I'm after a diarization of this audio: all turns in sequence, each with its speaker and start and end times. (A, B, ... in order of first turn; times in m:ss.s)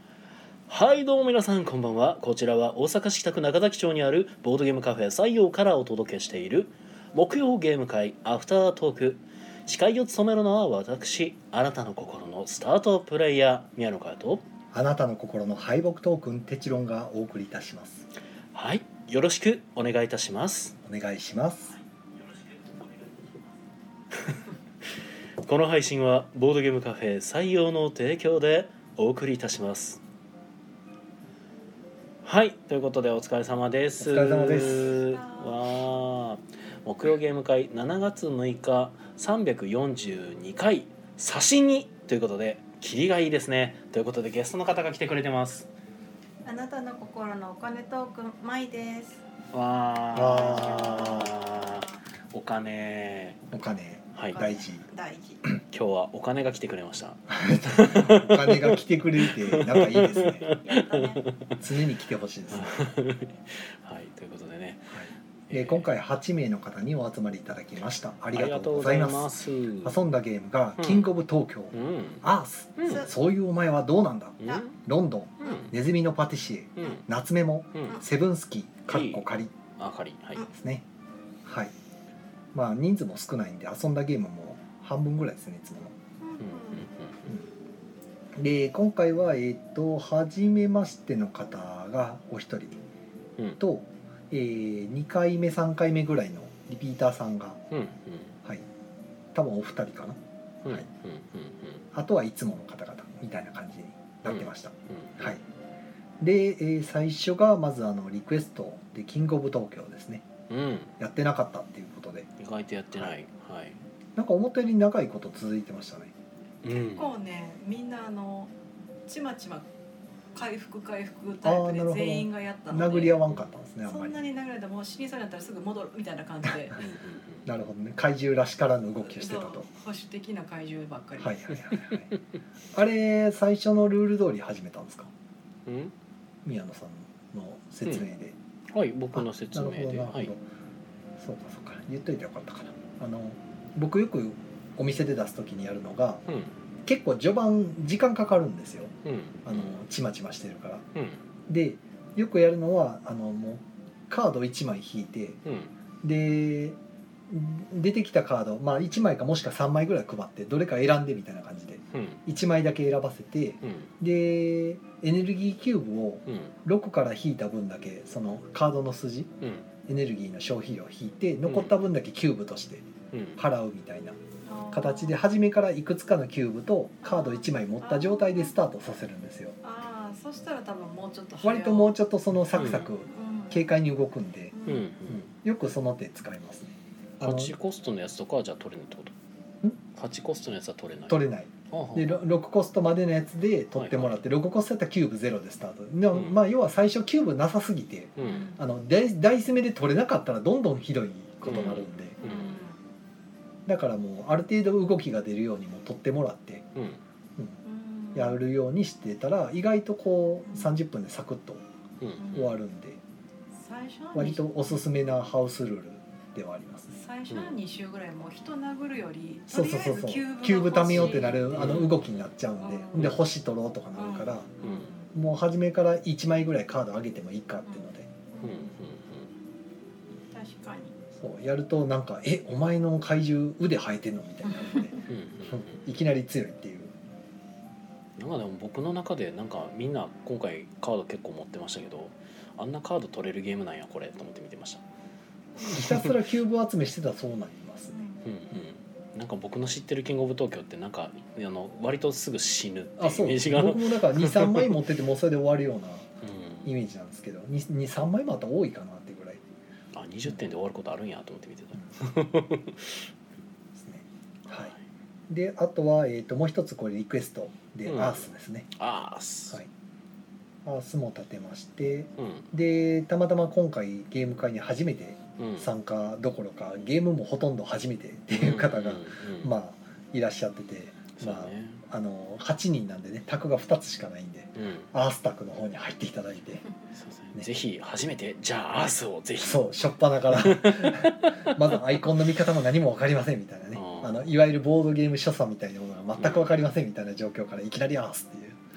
0:00.7-0:14.4 A
0:14.7-0:18.0 B
0:18.5-0:20.7 A
0:20.8-0:21.7 B
0:24.1-0:24.4 A
0:25.4-0:30.0 A
0:32.2-0:45.7 A
0:34.0-0:35.0 B
0:34.6-0:35.6 C
0:46.4-0:49.2 C
0:49.5-0:53.4 A
0:50.1-0:51.3 B
0:50.3-0:52.0 C
0:53.5-0:54.8 B
0:54.1-0:54.4 A
0:54.3-0:55.4 C
0:55.7-1:01.6 A
0:57.3-1:00.5 B
1:00.6-1:01.2 C
1:01.6-1:02.9 B
1:02.5-1:05.9 A
1:04.9-1:09.3 B
1:08.3-1:10.0 A
1:09.8-1:19.5 B
1:10.8-1:11.1 A
1:11.7-1:12.2 A
1:12.8-1:13.1 A
1:14.4-1:14.8 A
1:15.4-1:15.7 A
1:17.7-1:18.0 A
1:18.9-1:19.3 A
1:19.8-1:20.5 A
1:20.5-1:20.8 B
1:21.4-1:21.7 B
1:22.5-1:25.9 B
1:26.2-1:26.9 C
1:26.4-1:27.3 A
1:28.3-1:32.8 B
1:33.6-1:37.6 B
1:37.7-1:38.3 A
1:39.3-1:40.9 B
1:40.6-1:41.8 A
1:41.9-1:45.4 B
1:44.2-1:45.4 A
1:46.2-1:50.2 B
1:50.5-1:50.9 A
1:51.0-1:52.3 B
1:52.4-1:53.8 A
1:54.2-1:56.1 B
1:56.6-1:57.1 A
1:56.8-1:58.5 C
1:59.1-1:59.7 C
2:00.3-2:03.2 C
2:01.4-2:04.2 B
2:03.8-2:06.8 C
2:06.8-2:07.5 A
2:07.4-2:09.7 B
2:09.2-2:11.5 C
2:11.2-2:12.1 B
2:11.8-2:12.2 A
2:12.7-2:15.1 B
2:15.6-2:15.9 A
2:16.4-2:18.4 B
2:18.7-2:20.3 A
2:19.1-2:20.4 B
2:21.2-2:26.2 B
2:26.3-2:26.5 A
2:26.8-2:28.9 B
2:29.0-2:29.7 A
2:29.4-2:30.8 B
2:30.9-2:31.2 A
2:31.5-2:35.4 B
2:35.4-2:35.7 A
2:36.0-2:36.8 B
2:37.3-2:49.3 B
2:41.9-2:42.2 A
2:43.6-2:43.9 A
2:46.2-2:46.5 A
2:49.4-2:49.6 A
2:49.8-2:54.2 B
2:51.4-2:51.7 A
2:53.1-2:53.4 A
2:54.4-2:55.2 C
2:54.7-2:59.6 B
2:57.0-2:58.5 C
2:59.6-3:02.0 C
3:01.4-3:07.5 B
3:02.5-3:02.9 A
3:02.6-3:03.7 C
3:04.5-3:04.9 C
3:04.6-3:05.3 A
3:07.2-3:09.1 A
3:09.9-3:12.2 A
3:11.1-3:22.2 B
3:13.7-3:14.2 A
3:18.2-3:18.5 A
3:18.2-3:18.6 C
3:21.4-3:22.6 A
3:21.5-3:22.8 C
3:23.6-3:26.6 B
3:26.8-3:27.0 A
3:27.6-3:28.4 C
3:28.1-3:31.6 B
3:32.0-3:32.3 A
3:32.2-3:32.6 C
3:32.3-3:33.0 B
3:33.6-3:34.9 C
3:34.1-3:36.9 B
3:36.9-3:41.5 C
3:37.3-3:37.6 A
3:39.5-3:44.5 B
3:40.9-3:42.3 A
3:42.6-3:43.2 C
3:44.0-3:45.1 C
3:44.6-3:44.9 A
3:45.1-3:48.1 B
3:47.7-3:48.8 C
3:48.4-3:49.3 A
3:50.3-3:50.9 C
3:51.2-3:56.9 B
3:54.4-3:55.0 C
3:55.0-3:55.8 A
3:58.2-4:04.8 A
4:05.6-4:08.0 B
4:05.6-4:06.1 A
4:07.9-4:08.2 C
4:08.2-4:14.8 A
4:13.0-4:16.1 B
4:16.2-4:16.7 A
4:16.6-4:19.4 B
4:19.9-4:23.1 A
4:23.7-4:24.7 B
4:24.5-4:24.8 A
4:25.3-4:28.7 B
4:27.8-4:29.6 A
4:30.6-4:46.6 B
4:32.2-4:32.5 A
4:35.4-4:35.7 A
4:38.4-4:39.5 A
4:41.2-4:41.8 A
4:44.6-4:44.9 A
4:46.9-4:49.7 A
4:49.4-4:58.6 B
4:50.2-4:51.8 A
4:53.7-4:54.3 A
4:56.2-4:56.6 A